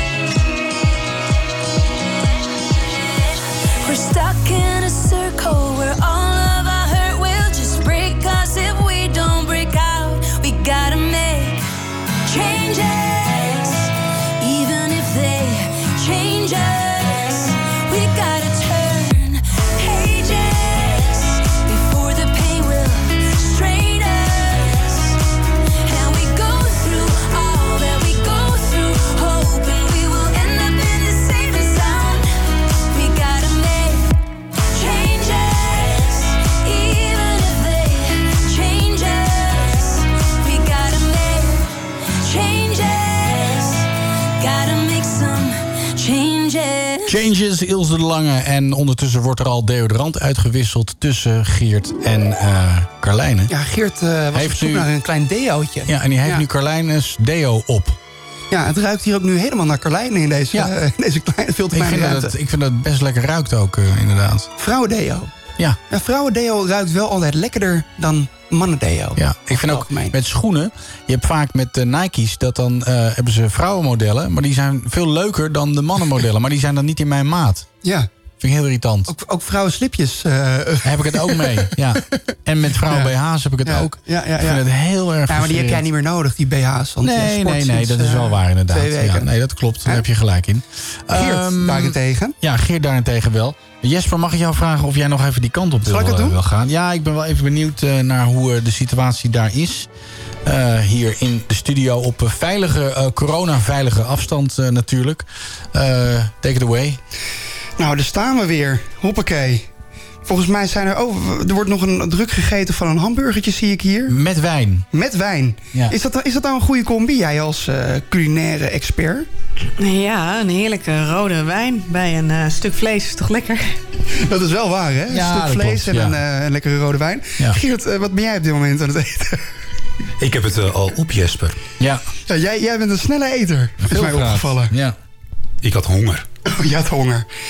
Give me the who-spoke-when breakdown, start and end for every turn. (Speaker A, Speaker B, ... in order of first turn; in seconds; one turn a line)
Speaker A: 3.8-11.7
Speaker A: 12.2-25.2
Speaker A: 25.8-32.3
Speaker A: 32.9-34.2
Speaker A: 34.7-47.2
Speaker B: 47.1-53.5
Speaker C: 53.5-56.5
Speaker B: 54.3-54.9
Speaker B: 55.9-58.0
Speaker C: 58.5-62.3
Speaker B: 61.7-64.5
Speaker C: 64.6-65.3
Speaker C: 65.9-70.2
Speaker B: 69.2-77.7
Speaker C: 77.8-78.1
Speaker B: 78.4-79.1
Speaker C: 79.1-82.1
Speaker B: 80.8-85.8
Speaker C: 82.8-83.1
Speaker C: 83.7-84.6
Speaker C: 85.3-89.3
Speaker B: 87.0-99.9
Speaker C: 91.1-92.4
Speaker C: 95.8-96.4
Speaker B: 100.5-107.0
Speaker C: 107.8-109.7
Speaker C: 110.3-114.2
Speaker B: 114.1-114.9
Speaker C: 114.9-119.3
Speaker D: 119.8-123.8
Speaker C: 124.1-129.4
Speaker B: 125.1-126.2
Speaker E: 130.2-131.6
Speaker C: 132.3-134.8
Speaker B: 133.8-135.0
Speaker E: 135.6-136.2
Speaker C: 136.5-137.3